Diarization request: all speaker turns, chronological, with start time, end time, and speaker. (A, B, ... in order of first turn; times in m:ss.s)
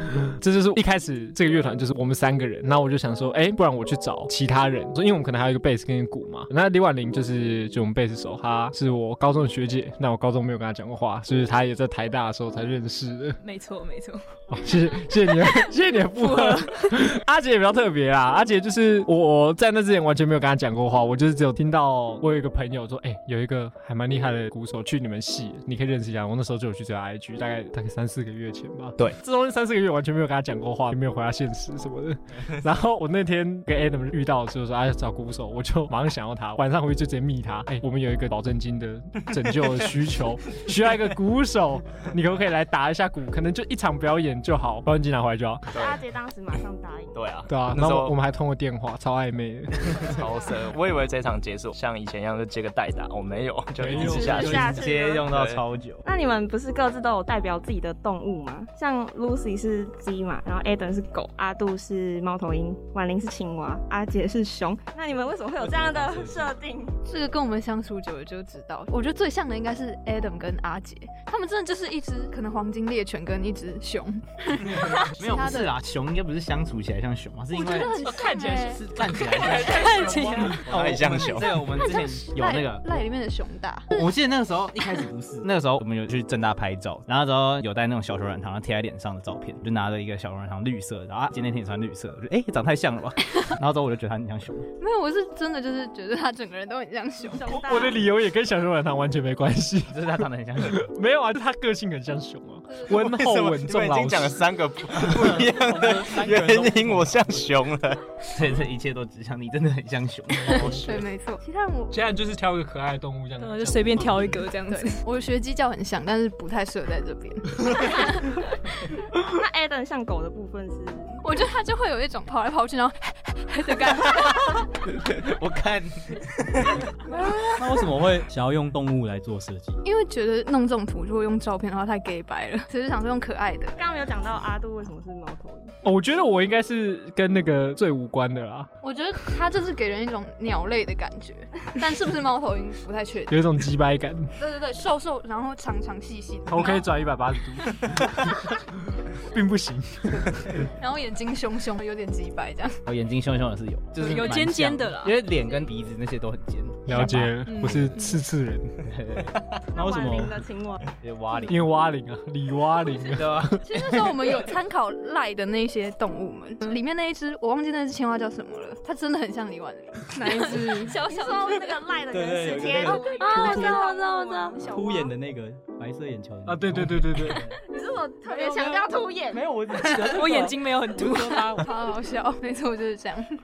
0:00.2-0:13.4 A
0:13.4-0:14.2 B
0:14.5-0:45.8 A
0:15.1-0:17.0 B
0:45.7-0:47.3 C
0:45.7-0:46.0 D
0:47.1-0:48.1 D
0:47.5-0:50.2 A
0:50.0-0:55.6 D
0:50.1-0:50.5 C
0:53.8-0:54.8 A
0:53.9-0:55.3 C
0:54.1-0:56.0 E
0:56.0-1:07.0 C
1:05.6-1:06.5 F
1:07.0-1:15.7 G
1:14.7-1:22.8 E
1:17.5-1:18.8 G
1:19.4-1:20.7 B
1:20.6-1:21.6 D
1:21.8-1:24.1 G
1:23.9-1:34.7 E
1:34.8-1:37.8 G
1:37.3-1:38.0 C
1:37.5-1:44.5 A
1:39.9-1:40.9 E
1:42.7-1:43.0 G
1:43.0-1:48.0 D
1:45.1-1:47.4 F
1:48.3-1:50.8 E
1:50.5-1:50.8 A
1:50.7-1:52.0 G
1:51.9-1:54.4 A
1:53.4-1:55.0 B
1:54.7-1:58.5 G
1:59.1-2:01.2 C
2:01.2-2:04.6 G
2:04.8-2:06.8 E
2:07.5-2:09.8 F
2:09.8-2:13.8 G
2:13.8-2:15.7 C
2:15.8-2:18.7 A
2:18.8-2:23.4 G
2:23.3-2:24.3 A
2:24.4-2:26.9 G
2:26.4-2:28.6 A
2:29.2-2:30.6 A
2:30.8-2:32.8 G
2:32.8-2:37.1 E
2:34.0-2:35.2 B
2:36.8-2:38.8 A
2:36.9-2:38.2 B
2:38.8-2:39.6 E
2:39.7-2:40.8 C
2:39.7-2:40.4 F
2:41.0-2:41.7 E
2:41.5-2:43.6 A
2:43.1-2:43.6 E
2:43.6-2:50.9 G
2:50.1-2:51.0 B
2:50.8-2:54.8 C
2:52.1-2:53.7 F
2:52.8-2:55.1 B
2:54.6-2:57.6 F
2:56.4-2:57.5 A
2:57.7-2:59.4 C
2:58.3-2:58.8 F
2:59.3-3:01.5 F
2:59.9-3:01.6 B
3:01.6-3:03.3 G